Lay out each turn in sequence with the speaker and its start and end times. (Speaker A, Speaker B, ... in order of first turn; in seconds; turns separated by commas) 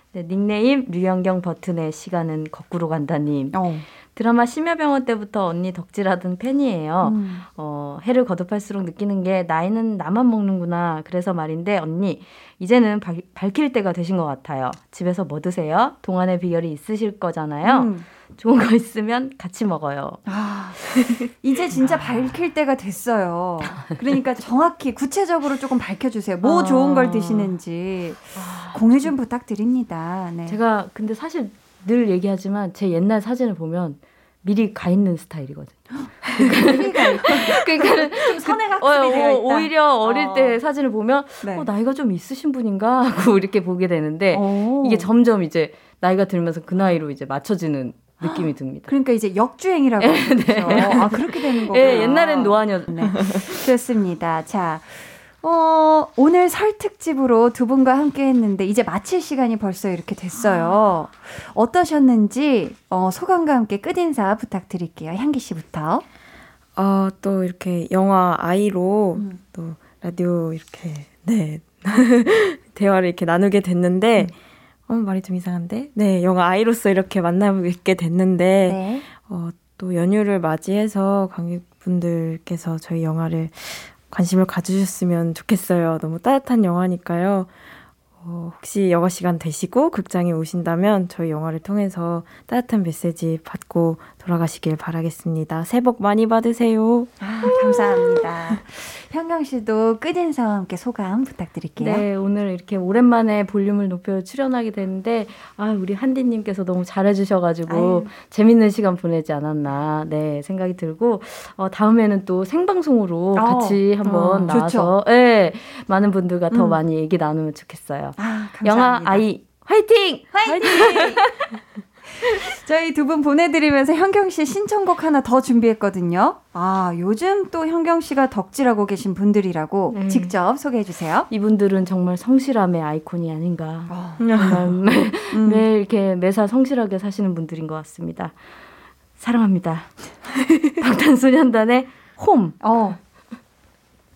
Speaker A: 0.1-3.6, Speaker B: 3.5-3.9, Speaker A: 4.1-20.2, Speaker B: 7.0-7.5, Speaker B: 17.6-18.1, Speaker B: 20.3-30.6, Speaker A: 26.4-27.5, Speaker A: 28.4-28.8, Speaker A: 30.5-48.9, Speaker B: 36.4-40.6, Speaker B: 41.4-41.7, Speaker B: 44.3-45.1, Speaker B: 48.2-66.0, Speaker A: 50.0-53.2, Speaker C: 53.1-53.4, Speaker C: 66.8-74.3, Speaker C: 74.9-87.5, Speaker B: 78.7-79.0, Speaker C: 88.2-97.1, Speaker B: 97.2-102.0, Speaker A: 101.8-121.3, Speaker B: 107.7-108.1, Speaker B: 113.3-113.8, Speaker C: 114.0-114.6, Speaker B: 114.5-114.9, Speaker B: 116.5-116.8, Speaker B: 118.2-119.2, Speaker B: 120.3-121.3, Speaker B: 122.2-131.3, Speaker A: 129.9-130.3, Speaker A: 131.3-138.3, Speaker B: 133.9-134.2, Speaker C: 134.2-134.7, Speaker B: 135.3-135.6, Speaker A: 139.2-139.9, Speaker A: 140.8-142.6, Speaker B: 142.6-143.0